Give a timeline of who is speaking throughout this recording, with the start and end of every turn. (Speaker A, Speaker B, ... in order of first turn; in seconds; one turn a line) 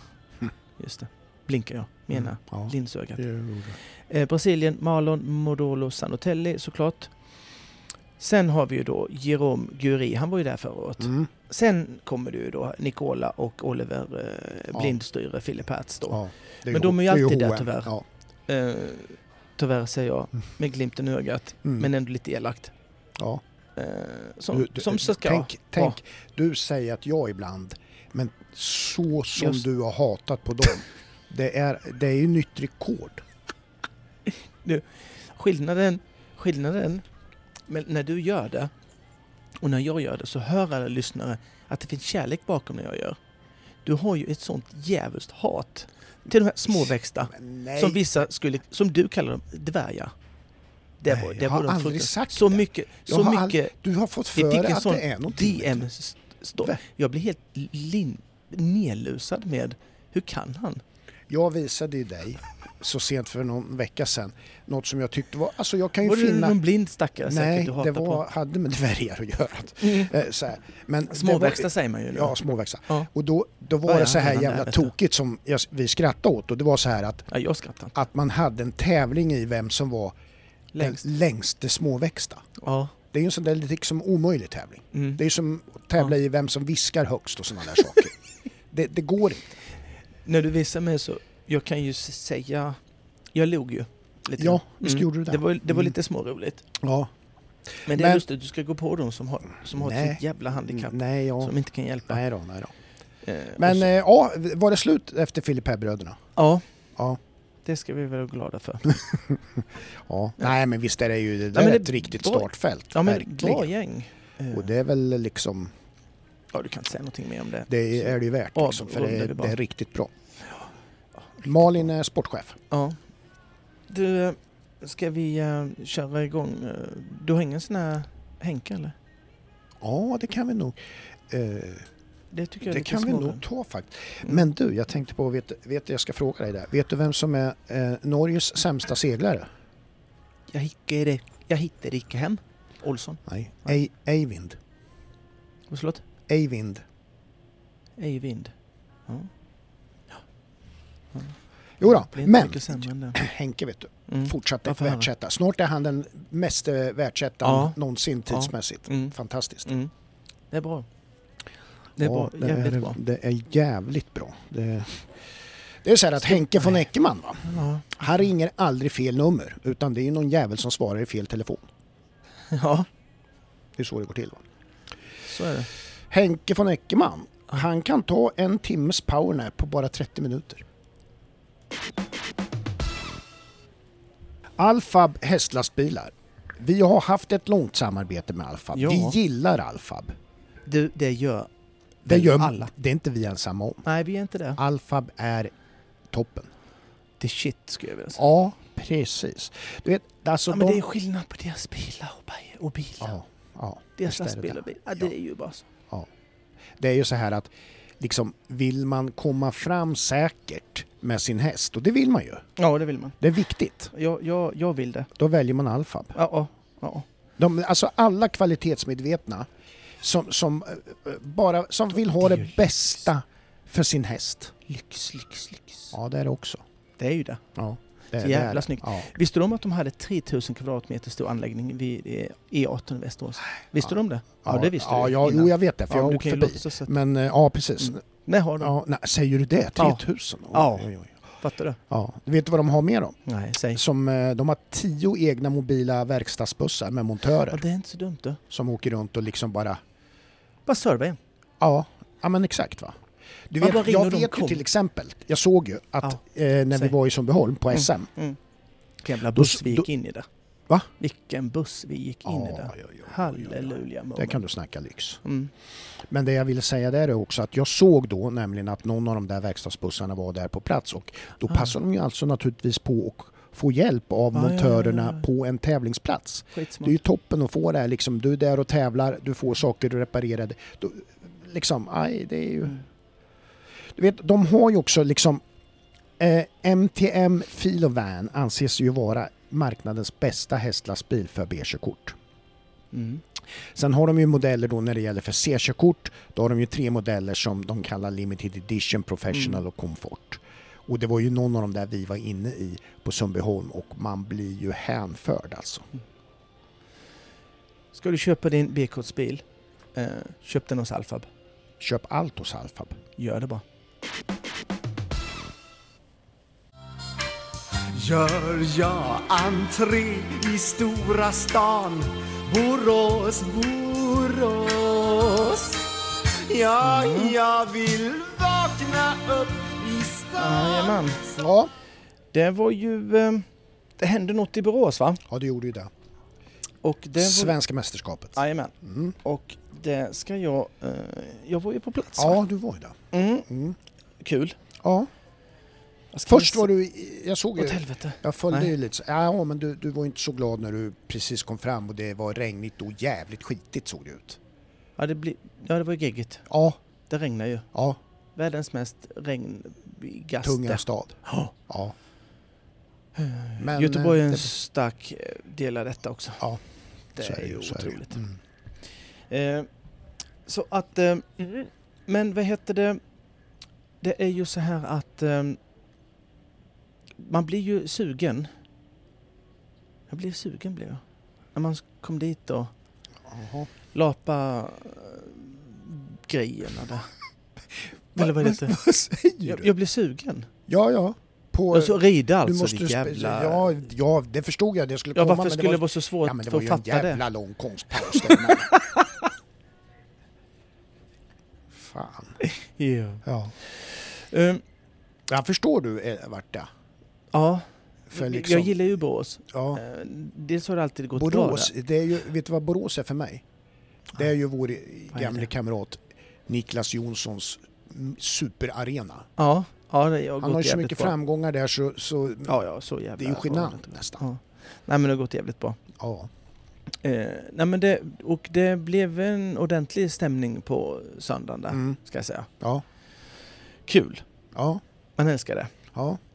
Speaker A: 0.8-3.2
Speaker B: 2.1-3.8
Speaker A: 4.1-7.1
Speaker A: 8.2-17.9
Speaker B: 11.0-11.3
Speaker B: 14.7-15.0
Speaker B: 16.1-18.0
Speaker A: 18.5-22.7
Speaker B: 23.2-23.4
Speaker A: 23.8-26.0
Speaker B: 24.5-33.2
Speaker A: 29.4-29.6
Speaker A: 34.6-37.0
Speaker A: 37.7-38.7
Speaker A: 39.6-43.2
Speaker A: 43.8-50.1
Speaker B: 47.3-48.0
Speaker A: 51.0-53.7
Speaker B: 51.1-55.9
Speaker A: 54.3-60.8
Speaker B: 61.3-66.6
Speaker A: 66.0-68.2
Speaker B: 67.2-77.3
Speaker A: 69.8-70.1
Speaker A: 71.1-72.4
Speaker A: 73.8-74.9
Speaker A: 77.3-77.9
Speaker B: 77.9-80.1
Speaker A: 80.7-81.0
Speaker B: 80.8-82.5
Speaker A: 82.6-82.9
Speaker B: 83.1-88.1
Speaker A: 84.9-85.2
Speaker B: 88.7-89.6
Speaker A: 90.2-92.8
Speaker A: 93.3-96.7
Speaker B: 94.4-95.9
Speaker B: 96.8-97.1
Speaker B: 97.7-98.2
Speaker A: 97.8-102.2
Speaker B: 99.7-101.5
Speaker B: 102.1-102.7
Speaker A: 103.2-103.9
Speaker B: 103.6-106.2
Speaker A: 106.3-106.6
Speaker A: 107.6-108.9
Speaker B: 109.0-113.7
Speaker A: 111.5-114.7
Speaker B: 114.5-115.7
Speaker A: 116.5-119.5
Speaker B: 117.7-120.1
Speaker B: 121.4-122.6
Speaker A: 122.7-123.0
Speaker A: 123.9-128.9
Speaker B: 129.8-130.8
Speaker B: 131.3-131.9
Speaker A: 132.3-133.4
Speaker B: 132.6-139.5
Speaker A: 140.5-143.7
Speaker B: 143.2-144.6
Speaker A: 145.7-146.0
Speaker B: 146.3-146.8
Speaker A: 148.0-148.5
Speaker B: 151.8-159.7
Speaker A: 151.8-153.2
Speaker A: 154.1-155.1
Speaker A: 157.4-157.8
Speaker A: 158.3-159.1
Speaker A: 159.7-159.9
Speaker A: 160.5-160.9
Speaker A: 162.0-163.0
Speaker B: 162.0-165.1
Speaker B: 165.8-171.7
Speaker A: 166.5-166.8
Speaker A: 167.4-168.0
Speaker A: 172.5-172.9
Speaker B: 173.8-174.4
Speaker A: 175.3-175.7
Speaker B: 176.1-180.6
Speaker B: 184.6-190.2
Speaker A: 188.7-189.2
Speaker A: 190.7-191.5
Speaker B: 192.1-193.8
Speaker A: 192.1-192.7
Speaker A: 193.8-194.6
Speaker B: 194.6-195.5
Speaker B: 196.1-196.5
Speaker A: 197.2-198.2
Speaker B: 198.2-200.8
Speaker A: 200.5-203.2
Speaker B: 203.0-205.1
Speaker A: 204.0-205.6
Speaker B: 206.8-212.4
Speaker A: 212.6-213.2
Speaker B: 213.2-213.9
Speaker A: 213.9-215.1
Speaker B: 215.2-216.2
Speaker A: 216.1-217.1
Speaker B: 217.4-219.5
Speaker B: 220.0-224.6
Speaker A: 222.1-223.0
Speaker A: 224.7-225.9
Speaker B: 225.9-226.6
Speaker A: 227.0-227.4
Speaker B: 227.6-229.1
Speaker A: 228.2-236.9
Speaker B: 234.4-238.0
Speaker A: 237.8-238.7
Speaker B: 238.6-241.2
Speaker A: 239.8-241.8
Speaker B: 241.9-243.2
Speaker A: 243.2-243.8
Speaker B: 243.7-247.6
Speaker A: 247.5-248.4
Speaker B: 248.5-249.8
Speaker A: 250.7-251.2
Speaker B: 251.6-253.0
Speaker B: 253.5-258.1
Speaker A: 253.6-254.6
Speaker A: 256.0-256.9
Speaker A: 257.7-258.4
Speaker A: 259.0-260.3
Speaker B: 259.3-259.9
Speaker A: 261.0-264.4
Speaker B: 262.2-265.2
Speaker A: 265.2-265.5
Speaker B: 266.1-282.8
Speaker A: 274.3-275.2
Speaker A: 276.5-277.0
Speaker B: 283.9-285.4
Speaker B: 286.2-292.1
Speaker A: 292.9-293.2
Speaker B: 293.7-305.9
Speaker A: 299.3-299.6
Speaker A: 307.9-309.4
Speaker A: 309.9-311.3
Speaker B: 311.8-313.0
Speaker A: 313.2-313.6
Speaker C: 317.9-325.8
Speaker C: 326.4-331.0
Speaker A: 326.8-327.4
Speaker B: 326.8-327.2
Speaker A: 330.4-331.2
Speaker B: 331.3-331.7
Speaker A: 332.3-333.4
Speaker A: 334.0-335.2
Speaker B: 335.3-335.9
Speaker A: 336.8-337.6
Speaker B: 337.2-339.1
Speaker A: 338.3-342.4
Speaker B: 342.1-342.9
Speaker A: 343.1-343.5
Speaker B: 343.5-343.8
Speaker A: 344.2-344.6
Speaker B: 344.8-345.1
Speaker A: 346.1-346.7
Speaker B: 346.3-354.4
Speaker A: 347.6-348.7
Speaker A: 355.0-356.5
Speaker B: 356.5-356.8
Speaker A: 357.1-357.7
Speaker A: 358.4-361.5
Speaker B: 360.4-361.9
Speaker A: 363.1-366.4
Speaker B: 363.6-364.5
Speaker A: 367.1-368.2
Speaker B: 367.2-368.4
Speaker A: 369.3-369.7
Speaker A: 370.4-373.0
Speaker A: 374.0-375.6
Speaker A: 377.2-378.5
Speaker A: 380.1-381.0
Speaker A: 381.5-382.7
Speaker B: 383.3-383.7
Speaker A: 383.9-387.1
Speaker A: 388.1-388.8
Speaker B: 388.1-389.7
Speaker A: 389.4-390.5
Speaker B: 390.7-398.7
Speaker A: 391.7-393.8
Speaker A: 395.1-397.2
Speaker A: 398.0-399.2
Speaker B: 401.7-402.4
Speaker A: 402.4-404.6
Speaker B: 403.2-403.5
Speaker B: 405.3-406.7
Speaker A: 407.3-411.7
Speaker B: 408.1-408.7
Speaker B: 409.5-409.8
Speaker B: 411.1-413.4
Speaker B: 414.1-419.3
Speaker A: 415.1-415.5
Speaker A: 419.4-421.1
Speaker B: 420.4-422.5
Speaker A: 422.4-425.8
Speaker B: 423.2-424.2
Speaker B: 426.0-426.3
Speaker A: 427.0-432.5
Speaker B: 431.7-432.0
Speaker A: 433.9-434.2
Speaker B: 434.5-434.8
Speaker A: 435.2-435.7
Speaker B: 435.9-436.2